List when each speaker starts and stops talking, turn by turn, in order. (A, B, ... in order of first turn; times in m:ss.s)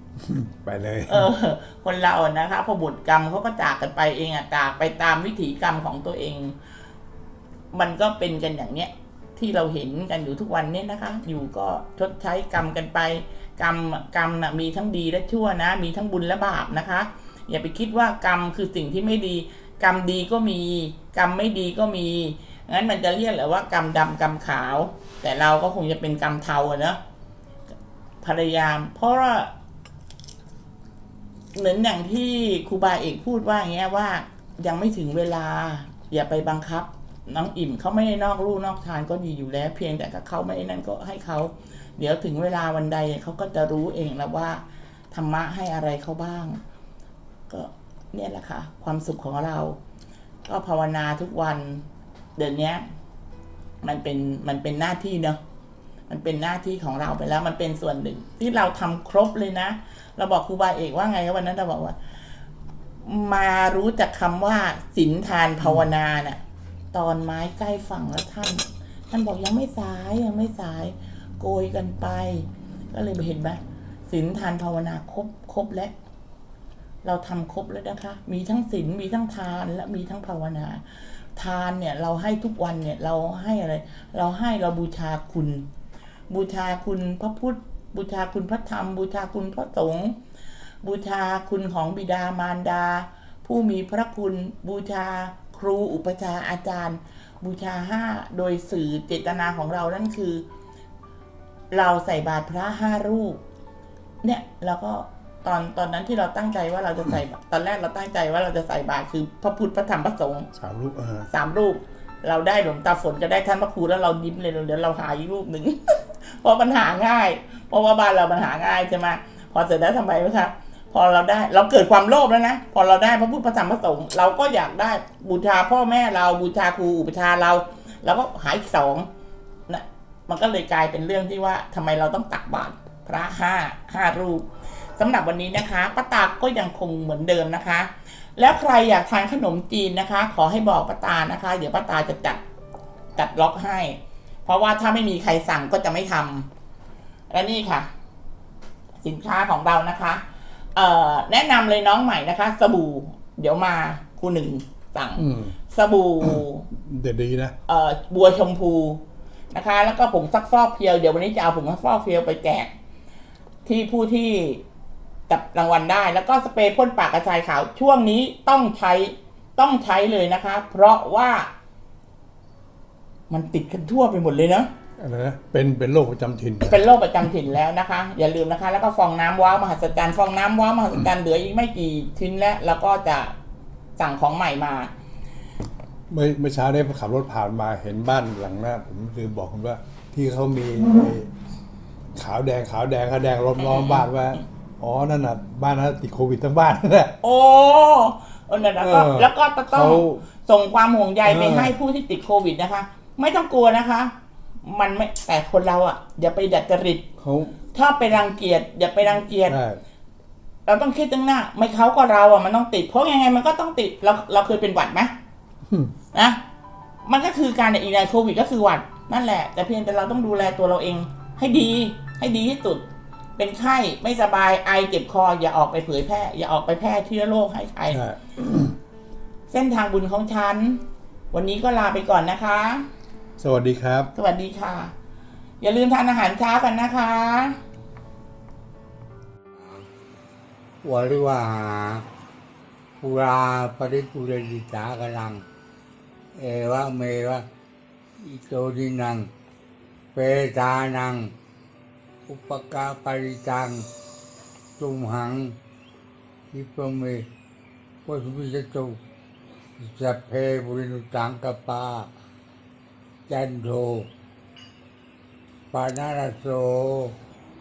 0:00.2-0:01.3 A
0:01.1-0:06.6 B
0:07.7-0:27.0 B
0:28.2-0:29.5 B
0:31.6-0:46.6 B
0:47.5-0:49.8 B
0:50.5-0:52.8 B
0:53.8-0:55.4 B
0:56.1-1:02.0 B
1:03.0-1:06.4 B
1:06.9-1:15.9 B
1:17.0-1:25.7 B
1:26.3-1:30.2 B
1:30.8-1:40.4 B
1:41.7-1:43.4 B
1:44.2-1:50.5 B
1:50.5-1:51.3 A
1:51.3-2:09.1 B
2:09.7-2:14.5 B
2:15.0-2:22.4 B
2:23.2-2:26.5 B
2:27.3-2:27.9 B
2:29.0-2:36.7 B
2:35.2-2:35.5 A
2:36.7-2:37.6 A
2:37.7-2:42.7 B
2:43.7-2:44.6 B
2:45.3-2:51.5 B
2:53.3-2:54.7 B
2:55.0-2:56.9 A
2:56.7-3:03.4 B
3:04.0-3:04.9 B
3:06.1-3:11.3 A
3:12.1-3:17.1 A
3:13.6-3:14.1 B
3:17.2-3:24.1 B
3:18.8-3:20.2 A
3:21.3-3:21.8 A
3:24.6-3:27.1 B
3:27.2-3:27.6 A
3:27.7-3:29.6 B
3:29.5-3:29.8 A
3:30.7-3:35.1 B
3:35.7-3:35.9 A
3:36.1-3:36.4 B
3:37.1-3:42.9 B
3:43.4-3:48.0 B
3:47.9-3:48.7 A
3:49.5-3:52.9 B
3:53.4-3:54.1 A
3:54.2-3:54.9 B
3:55.6-3:57.6 B
3:59.6-3:59.8 C
4:00.8-4:02.0 C
4:03.0-4:05.4 C
4:06.4-4:07.5 C
4:08.2-4:09.3 C
4:10.1-4:11.3 C
4:12.3-4:13.9 C
4:14.8-4:15.6 C
4:16.5-4:17.3 C
4:18.0-4:19.0 C
4:19.8-4:22.1 C
4:23.3-4:24.1 C
4:25.7-4:27.2 C